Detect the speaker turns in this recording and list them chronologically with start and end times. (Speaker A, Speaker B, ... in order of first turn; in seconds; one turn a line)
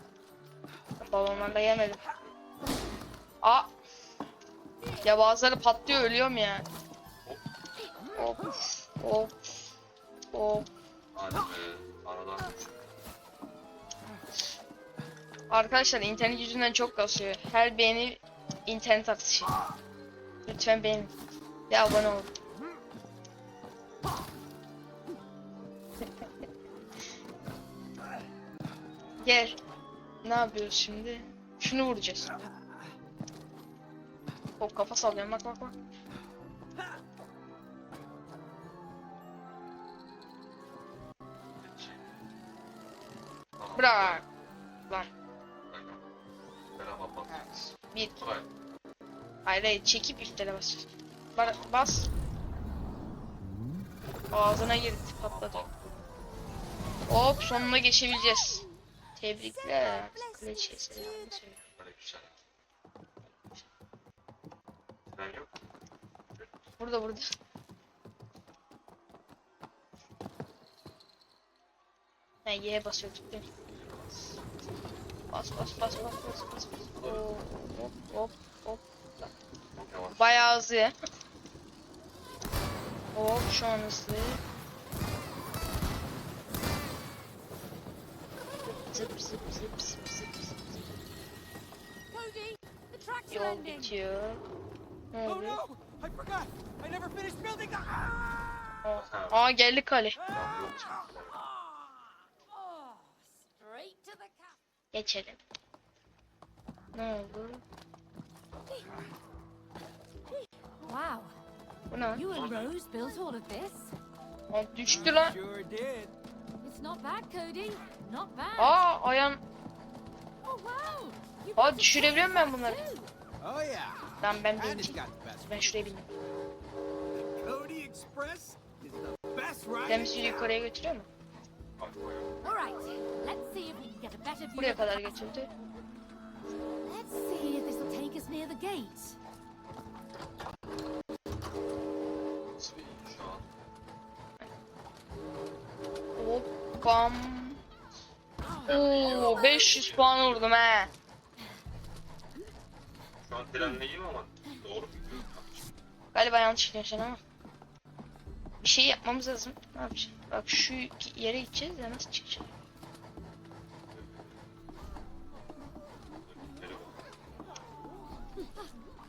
Speaker A: 1.0-2.0
Speaker B: 1.0-2.3
Speaker A: 3.4-3.7
Speaker A: 5.0-6.7
Speaker A: 8.1-9.4
Speaker A: 10.3-10.7
Speaker B: 11.1-12.9
Speaker A: 15.5-19.6
Speaker A: 20.4-21.1
Speaker A: 21.7-22.3
Speaker A: 29.2-29.5
Speaker A: 30.2-32.3
Speaker A: 34.6-35.7
Speaker B: 41.6-42.1
Speaker B: 43.6-44.2
Speaker A: 43.7-44.2
Speaker B: 45.7-46.0
Speaker B: 46.8-48.5
Speaker C: 47.2-47.5
Speaker A: 49.4-52.1
Speaker B: 51.4-51.8
Speaker A: 54.3-55.6
Speaker B: 55.2-56.0
Speaker A: 57.1-58.6
Speaker A: 59.2-61.6
Speaker D: 59.5-61.4
Speaker B: 61.7-62.4
Speaker B: 63.2-63.7
Speaker B: 65.1-65.5
Speaker A: 66.8-67.3
Speaker A: 72.4-73.4
Speaker B: 73.7-74.4
Speaker A: 75.3-79.3
Speaker B: 76.8-77.3
Speaker B: 79.7-80.4
Speaker A: 80.1-80.9
Speaker A: 83.1-84.4
Speaker A: 88.7-90.7
Speaker D: 92.1-94.0
Speaker A: 93.3-94.4
Speaker A: 95.1-95.6
Speaker C: 95.2-98.7
Speaker A: 98.8-100.2
Speaker B: 98.9-99.6
Speaker C: 100.2-100.8
Speaker B: 100.3-101.4
Speaker D: 102.5-104.6
Speaker A: 104.9-105.4
Speaker A: 106.9-107.6
Speaker D: 110.3-111.3
Speaker A: 111.9-112.2
Speaker D: 112.1-113.9
Speaker B: 112.3-112.7
Speaker A: 114.5-115.3
Speaker C: 114.8-116.1
Speaker D: 116.6-118.8
Speaker A: 118.6-119.4
Speaker D: 120.4-123.1
Speaker A: 121.5-122.9
Speaker C: 123.4-125.9
Speaker A: 124.2-126.1
Speaker C: 127.1-130.5
Speaker A: 129.8-131.1
Speaker B: 131.8-132.5
Speaker D: 132.4-135.4
Speaker A: 134.5-135.5
Speaker D: 136.8-139.2
Speaker B: 142.6-143.7
Speaker A: 146.2-147.6
Speaker B: 148.7-150.9
Speaker A: 148.7-150.9
Speaker D: 148.9-149.8
Speaker B: 153.2-155.7
Speaker A: 156.1-157.2
Speaker A: 158.6-162.5
Speaker B: 163.9-164.4
Speaker B: 166.2-167.0